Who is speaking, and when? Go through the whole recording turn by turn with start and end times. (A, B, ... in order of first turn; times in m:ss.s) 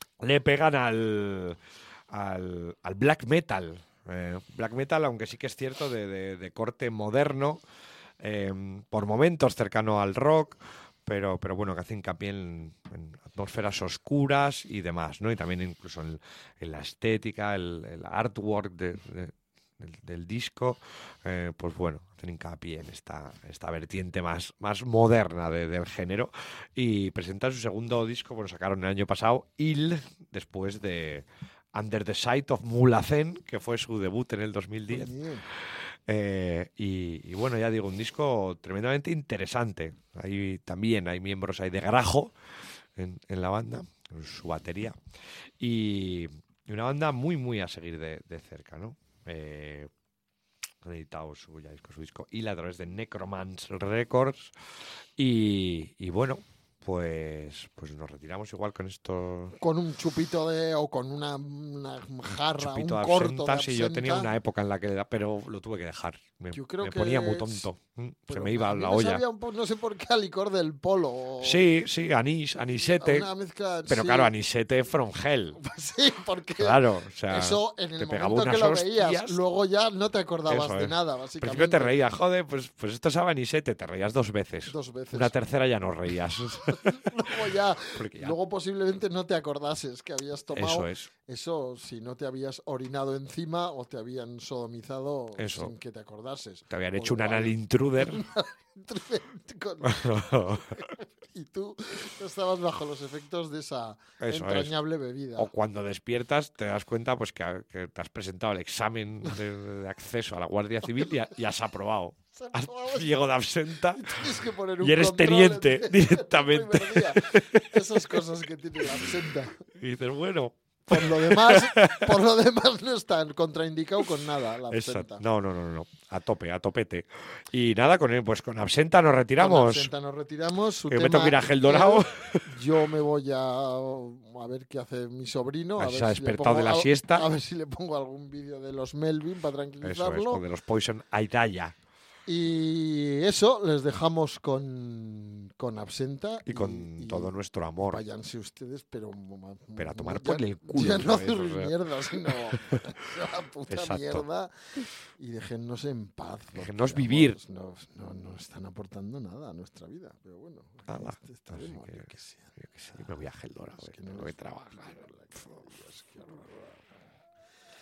0:00.2-0:07.6 A
0:08.2-0:35.1 A
0:34.9-0:35.4 B
0:36.1-0:42.3 A
0:43.0-0:45.0 A
0:45.6-0:49.9 A
0:50.8-0:54.5 A
0:55.2-0:59.6 A
0:59.6-1:04.3 B
1:02.6-1:09.2 A
1:06.5-1:07.6 B
1:08.3-1:11.6 B
1:11.4-1:13.3 A
1:12.7-1:14.3 B
1:13.9-1:15.6 A
1:15.6-1:22.0 B
1:16.6-1:19.4 A
1:20.5-1:27.3 A
1:24.7-1:25.3 B
1:26.7-1:45.5 B
1:27.9-1:28.3 A
1:30.5-1:31.1 A
1:35.4-1:35.7 A
1:36.7-1:38.2 A
1:39.8-1:40.8 A
1:44.2-1:44.7 A
1:45.4-1:58.1 A
1:52.3-1:53.1 B
1:53.9-1:59.6 B
1:59.7-2:02.2 A
2:00.9-2:05.2 B
2:04.7-2:09.9 A
2:09.4-2:20.4 B
2:10.9-2:12.6 A
2:15.8-2:17.3 A
2:19.8-2:21.7 A
2:22.3-2:34.5 B
2:26.4-2:28.0 A
2:29.8-2:31.8 A
2:32.3-2:32.8 A
2:33.7-2:34.2 A
2:35.2-2:43.0 B
2:36.5-2:37.4 A
2:40.9-2:45.6 A
2:43.8-2:46.9 B